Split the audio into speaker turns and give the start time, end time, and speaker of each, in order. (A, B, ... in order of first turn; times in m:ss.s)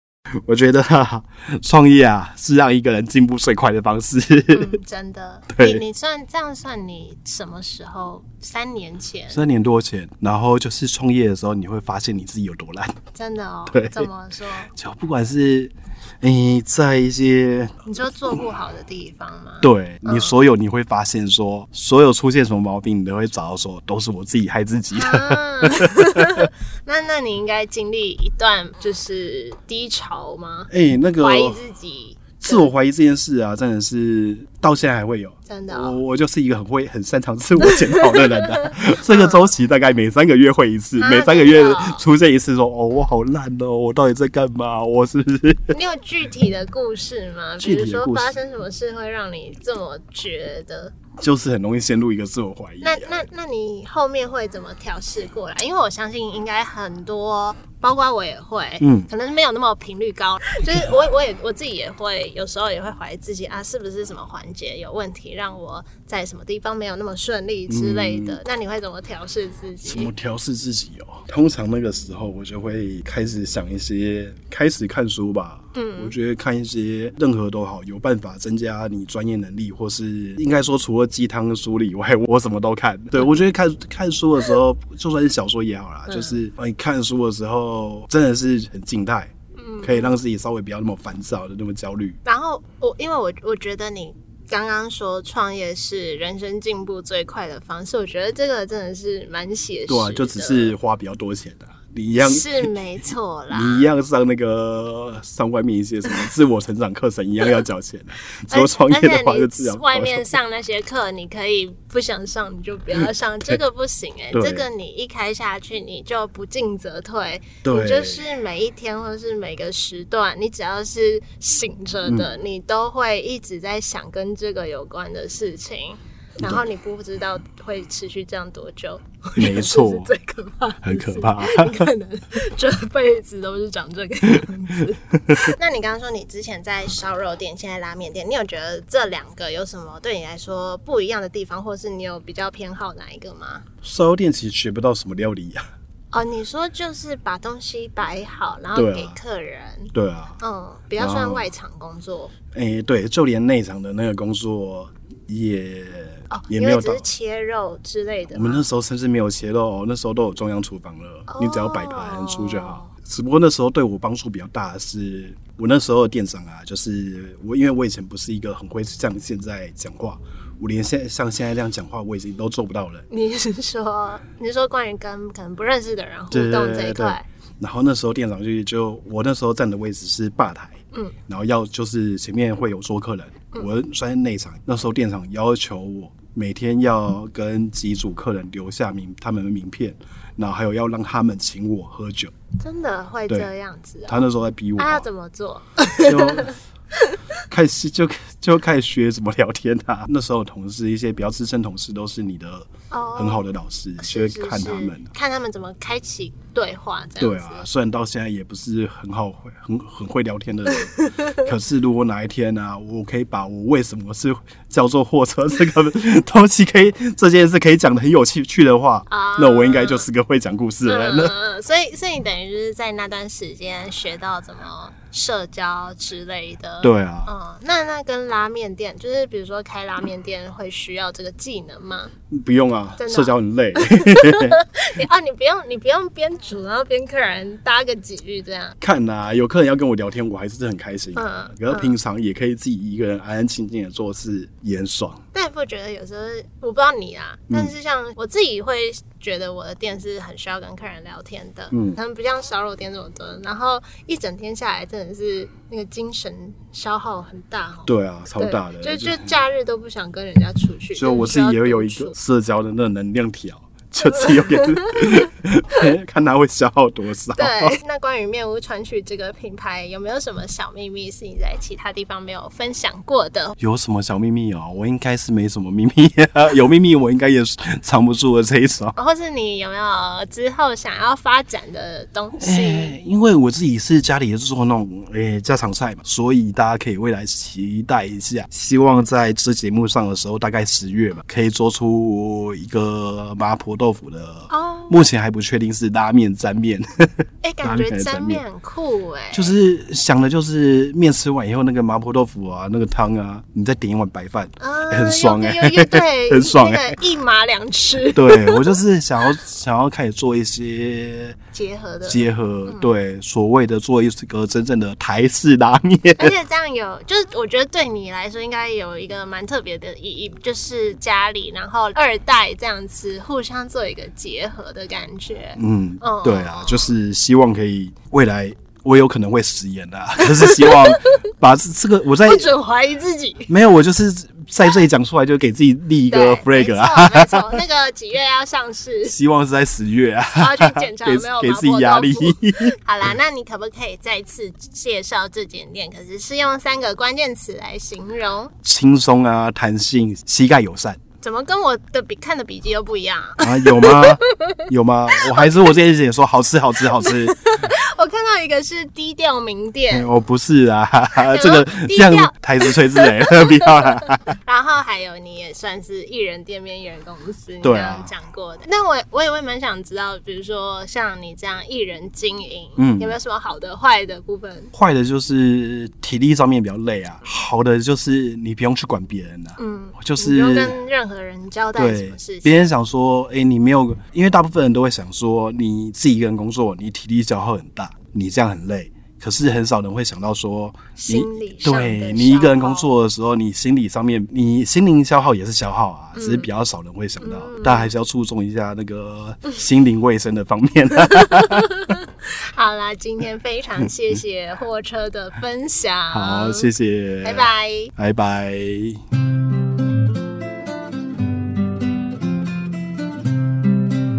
0:00.4-0:04.8 A
0:04.5-0:09.4 B
0:05.5-0:05.8 A
0:09.3-0:13.0 A
0:13.1-0:14.7 B
0:13.7-0:14.1 A
0:14.7-0:17.8 A
0:17.8-0:20.3 B
0:19.6-0:26.5 A
0:24.9-0:32.7 B
0:30.7-0:31.6 A
0:32.4-0:45.7 A
0:35.5-0:36.0 B
0:37.6-0:39.5 B
0:41.0-0:42.0 B
0:45.7-0:50.9 B
0:47.6-0:48.4 A
0:51.2-0:53.2 A
0:52.8-1:10.1 B
0:58.8-0:59.1 A
1:07.7-1:08.4 A
1:09.8-1:32.2 A
1:15.7-1:16.1 B
1:26.1-1:26.4 B
1:29.6-1:30.2 B
1:32.2-1:40.7 B
1:39.9-1:42.7 A
1:42.2-1:43.9 B
1:43.5-1:50.3 A
1:48.5-2:23.6 B
1:54.3-1:54.6 A
1:57.6-1:58.2 A
2:06.4-2:06.6 A
2:09.4-2:10.1 A
2:10.8-2:11.9 A
2:15.1-2:15.5 A
2:23.8-2:25.6 A
2:26.1-2:32.3 B
2:28.7-2:29.2 A
2:29.9-2:30.4 A
2:31.0-2:31.5 A
2:32.5-2:37.0 A
2:36.3-2:38.6 B
2:38.3-2:53.0 A
2:41.3-2:42.9 B
2:53.1-2:57.2 B
2:56.3-3:12.3 A
3:12.6-3:14.2 B
3:14.1-3:15.0 A
3:14.8-3:17.2 B
3:16.0-3:16.6 A
3:17.5-3:25.1 A
3:22.9-3:23.4 B
3:24.0-3:27.6 B
3:27.2-3:41.3 A
3:39.1-3:40.0 B
3:40.8-3:52.1 B
3:46.8-3:47.3 A
3:52.3-3:54.6 A
3:53.0-3:58.8 B
3:58.8-4:05.2 A
4:01.1-4:01.9 B
4:05.3-4:22.1 B
4:11.7-4:12.0 A
4:17.8-4:19.3 A
4:20.9-4:27.8 A
4:24.1-4:25.3 B
4:27.4-4:33.6 B
4:33.6-4:38.9 A
4:39.0-4:42.9 B
4:42.4-4:58.4 A
4:54.5-4:55.0 B
4:57.4-4:59.5 B
4:59.3-5:07.0 A
5:04.6-5:08.8 B
5:08.1-5:11.4 A
5:11.5-5:12.9 B
5:12.0-5:16.3 A
5:16.2-5:26.9 B
5:25.6-5:32.5 A
5:30.2-5:31.2 B
5:32.2-5:33.5 B
5:33.5-5:37.6 A
5:36.1-5:39.2 B
5:39.0-5:42.8 A
5:40.4-5:48.5 B
5:48.6-5:51.0 A
5:51.2-5:54.6 B
5:53.4-5:57.5 A
5:55.2-5:55.7 B
5:56.9-6:00.1 B
5:59.9-6:04.3 A
6:01.3-6:14.7 B
6:07.6-6:08.1 A
6:12.8-6:13.2 A
6:14.7-6:20.8 A
6:19.6-6:22.7 B
6:21.8-6:41.7 A
6:31.0-6:32.9 B
6:36.2-6:36.5 B
6:37.2-6:37.9 B
6:41.0-6:46.7 B
6:46.1-6:49.0 A
6:47.2-6:47.9 B